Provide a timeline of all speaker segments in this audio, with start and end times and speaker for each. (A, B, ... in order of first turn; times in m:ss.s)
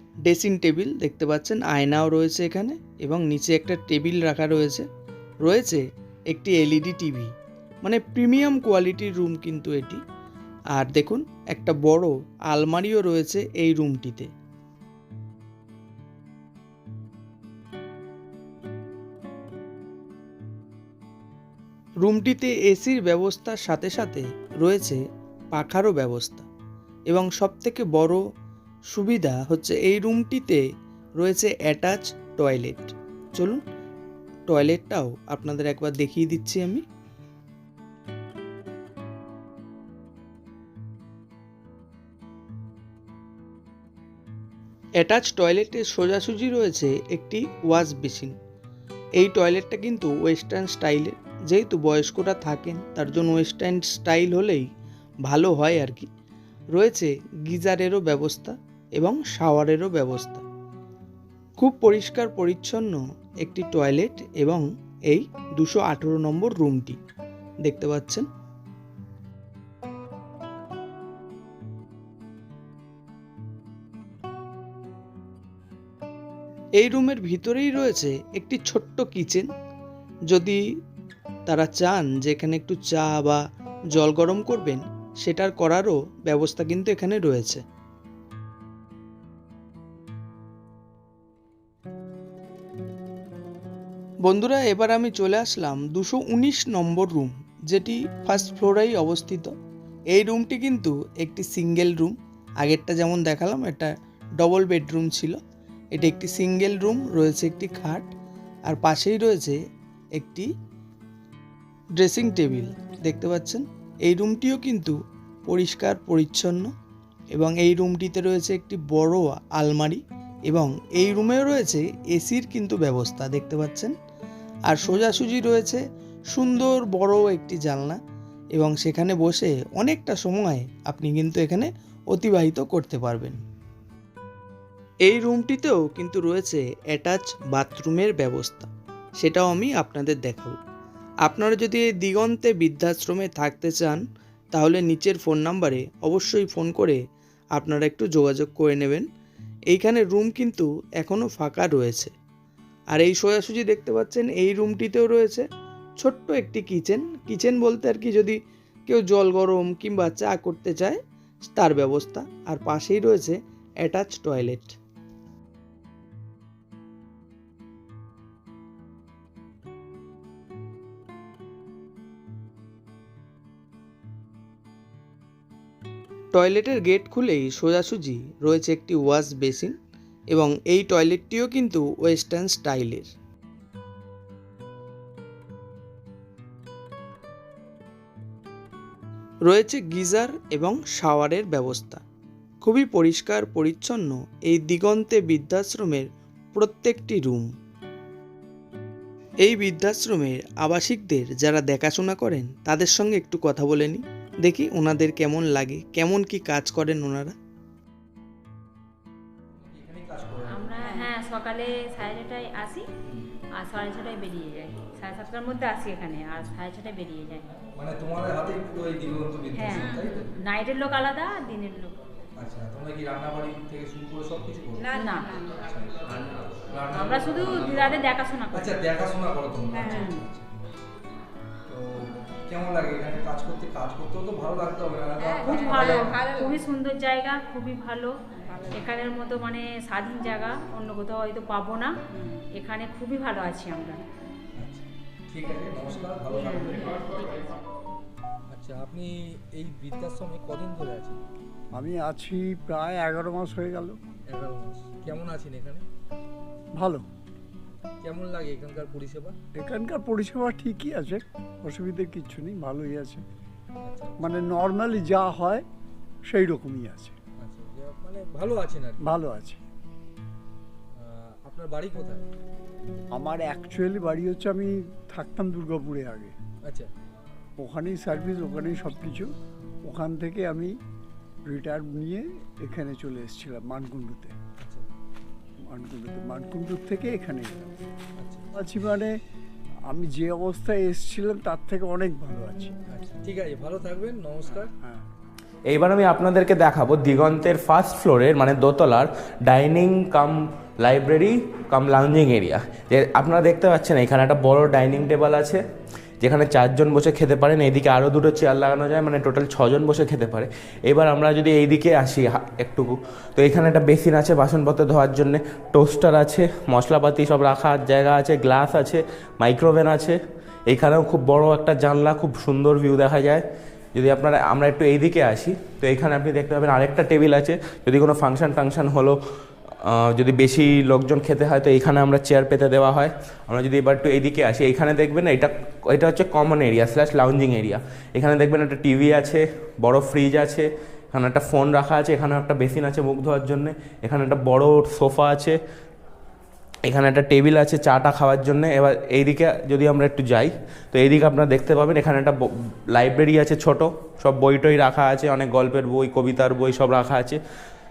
0:00.3-0:04.9 A
0:05.4-0:10.0 A
0:10.7-0:14.3 A
0:22.0-0:25.0 A
0:25.6-0:26.5 A
0:27.1-0:28.2 A
0:28.9-0:30.6 A
0:31.2-0:33.6 A
0:34.5-0:36.8 A
0:45.0-0:48.4 A
0:49.2-0:54.7 A
0:55.3-0:56.1 A
0:56.8-1:00.4 A
1:01.6-1:07.0 A
1:07.6-1:08.3 A
1:16.8-1:19.5 A
1:20.3-1:20.6 A
1:21.5-1:23.4 A
1:23.9-1:27.6 A
1:34.3-1:39.5 A
1:40.1-1:45.4 A
1:45.9-1:48.1 A
1:48.7-1:49.6 A
1:50.2-1:50.5 A
1:52.0-1:56.7 A
1:57.4-2:04.0 A
2:04.7-2:08.0 A
2:08.6-2:13.4 A
2:15.1-2:20.6 A
2:21.2-2:24.0 A
2:24.5-2:27.0 A
2:27.6-2:29.1 A
2:29.7-2:32.1 A
2:32.9-2:35.5 A
2:36.0-2:41.0 A
2:41.5-2:44.8 A
2:56.3-2:59.8 A
3:00.3-3:03.1 A
3:09.5-3:12.0 A
3:12.6-3:17.5 A
3:19.4-3:27.4 A
3:29.6-3:30.8 B
3:30.5-3:32.9 C
3:33.5-3:37.5 C
3:37.8-3:40.3 B
3:39.6-3:42.0 C
3:42.4-3:45.0 B
3:44.9-3:45.5 C
3:45.6-3:50.5 B
3:46.9-3:48.8 C
3:49.8-3:50.2 C
3:51.7-3:56.3 B
3:55.4-4:04.0 C
4:04.6-4:07.4 B
4:06.5-4:06.8 C
4:08.5-4:11.2 B
4:11.7-4:14.0 D
4:14.3-4:15.8 B
4:16.8-4:17.1 D
4:18.0-4:19.4 B
4:19.6-4:23.2 D
4:23.8-4:24.2 B
4:24.2-4:25.6 D
4:26.3-4:27.2 D
4:27.4-4:29.0 B
4:29.0-4:29.6 D
4:30.9-4:32.3 B
4:33.1-4:36.4 D
4:36.6-4:36.9 B
4:37.6-4:39.3 D
4:39.8-4:40.8 D
4:41.4-4:44.4 D
4:44.6-4:44.8 B
4:45.6-4:47.7 D
4:48.2-4:48.5 B
4:48.5-4:49.2 D
4:49.9-4:52.8 D
4:52.9-4:54.7 B
4:54.5-4:55.0 D
4:55.7-5:05.6 E
5:06.2-5:23.4 E
5:24.0-5:45.6 E
5:46.8-5:57.4 E